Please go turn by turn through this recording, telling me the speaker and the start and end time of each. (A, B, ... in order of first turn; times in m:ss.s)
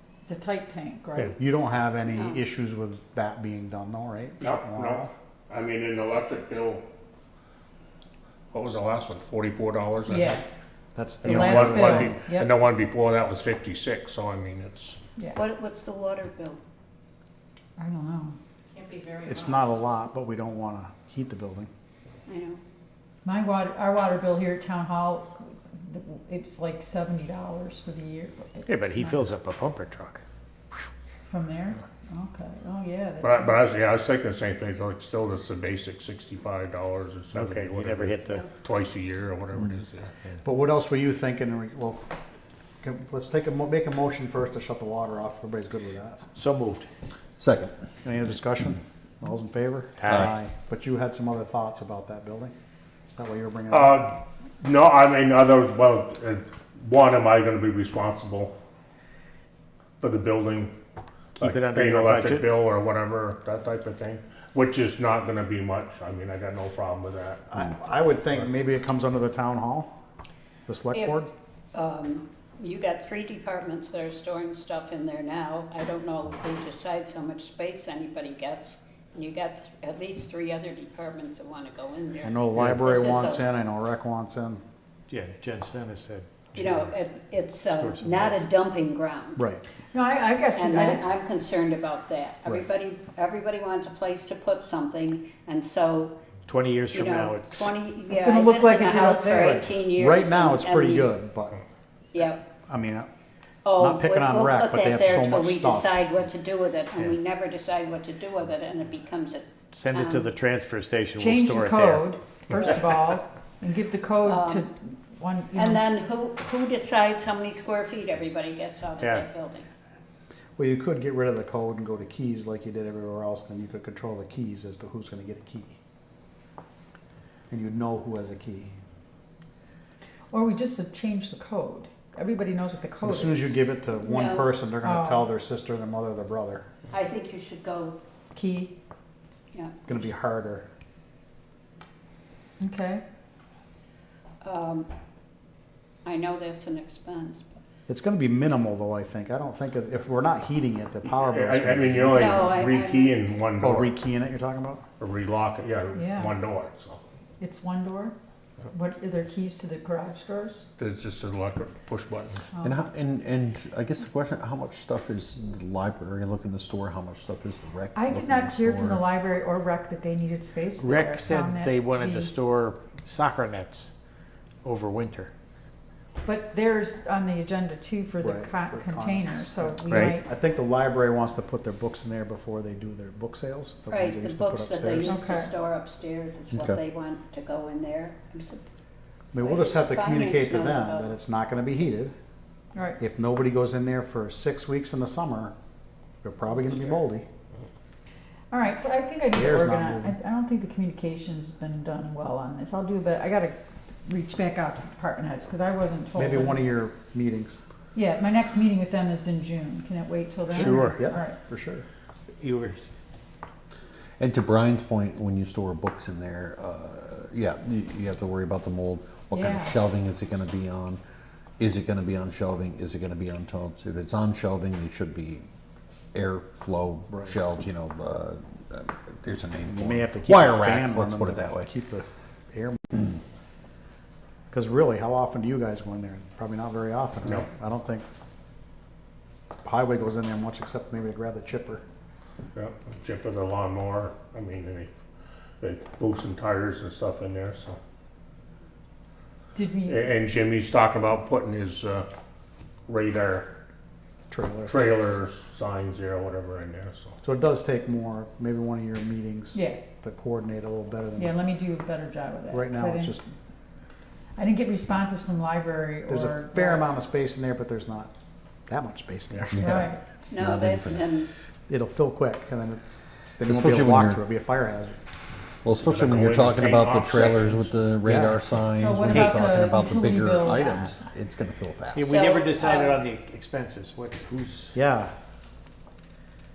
0:00.3-0:01.4 A
0:01.3-0:05.1 B
0:02.1-0:02.4 C
0:04.4-0:06.8 D
0:08.5-0:10.4 D
0:10.1-0:10.4 A
0:11.0-0:12.2 B
0:11.2-0:15.0 D
0:11.2-0:12.5 A
0:15.2-0:15.4 A
0:15.4-0:16.6 C
0:17.8-0:18.4 A
0:19.1-0:21.7 B
0:22.3-0:22.6 C
0:23.2-0:29.3 A
0:28.7-0:30.2 E
0:31.3-0:33.7 A
0:33.2-0:40.1 D
0:37.3-0:38.5 E
0:40.4-0:42.0 B
0:42.8-0:46.3 B
0:46.3-0:46.9 E
0:47.4-0:47.7 F
0:48.0-0:52.5 B
0:50.0-0:50.3 E
0:53.2-0:54.1 B
0:53.7-0:58.5 D
1:00.0-1:00.7 D
1:01.4-1:02.5 E
1:01.4-1:07.5 D
1:07.5-1:09.9 B
1:10.7-1:11.3 B
1:10.9-1:23.4 C
1:22.2-1:24.6 B
1:22.6-1:22.9 E
1:25.1-1:26.9 E
1:26.6-1:29.4 C
1:27.6-1:28.4 E
1:29.4-1:29.6 B
1:29.9-1:31.1 A
1:30.5-1:36.2 C
1:36.4-1:37.9 E
1:36.9-1:41.2 C
1:38.0-1:39.7 A
1:39.3-1:41.6 B
1:42.1-1:42.5 C
1:42.7-1:43.1 B
1:43.6-1:50.3 C
1:43.8-1:46.0 B
1:49.7-1:52.7 E
1:51.2-1:55.9 A
1:54.2-1:54.7 C
1:55.6-1:59.7 C
1:59.0-1:59.3 E
2:00.6-2:05.8 B
2:07.5-2:08.7 B
2:10.3-2:13.6 A
2:13.0-2:16.7 B
2:14.0-2:14.6 C
2:14.8-2:15.3 A
2:16.9-2:18.0 C
2:18.3-2:18.7 A
2:19.9-2:20.7 B
2:22.6-2:23.0 A
2:24.4-2:24.9 C
2:26.0-2:27.6 C
2:27.9-2:32.5 B
2:31.1-2:33.9 D
2:32.1-2:33.2 C
2:33.6-2:34.8 B
2:35.0-2:37.0 D
2:35.9-2:36.4 A
2:37.4-2:38.1 A
2:38.7-2:40.7 A
2:40.8-2:42.4 D
2:42.5-2:42.8 A
2:42.6-2:49.1 F
2:47.9-2:52.3 A
2:50.8-2:53.9 E
2:54.6-2:55.3 E
2:56.2-3:00.2 A
2:58.2-3:05.2 B
2:59.9-3:00.2 E
3:03.9-3:08.6 C
3:05.1-3:05.5 A
3:06.5-3:06.8 F
3:09.3-3:12.2 B
3:09.4-3:11.1 C
3:13.0-3:15.5 B
3:16.2-3:17.2 B
3:18.5-3:26.7 A
3:19.3-3:20.2 B
3:26.2-3:27.6 B
3:27.9-3:31.4 A
3:30.5-3:31.8 B
3:30.5-3:31.0 E
3:32.4-3:32.9 E
3:34.2-3:41.0 F
3:39.3-3:39.8 A
3:41.6-3:45.4 F
3:46.1-3:51.7 F
3:47.1-3:47.3 B
3:49.7-3:53.1 B
3:54.5-3:58.1 B
3:59.6-4:01.8 B
4:02.5-4:04.9 D
4:05.6-4:07.8 D
4:09.5-4:10.1 A
4:09.8-4:12.1 D
4:12.9-4:13.5 D
4:14.3-4:14.8 B
4:14.6-4:17.2 D
4:17.2-4:21.4 B
4:19.5-4:19.8 A
4:21.2-4:23.1 A
4:22.5-4:23.3 B
4:24.4-4:26.9 A
4:26.1-4:28.1 B
4:28.7-4:29.6 B
4:29.5-4:31.1 F
4:29.6-4:30.0 A
4:30.3-4:31.3 C
4:31.7-4:32.8 B
4:33.4-4:35.0 B
4:33.4-4:34.2 F
4:35.6-4:42.2 F
4:35.9-4:37.7 D
4:38.1-4:38.3 B
4:38.6-4:41.0 A
4:41.9-4:44.8 E
4:42.0-4:43.1 C
4:44.7-4:45.1 B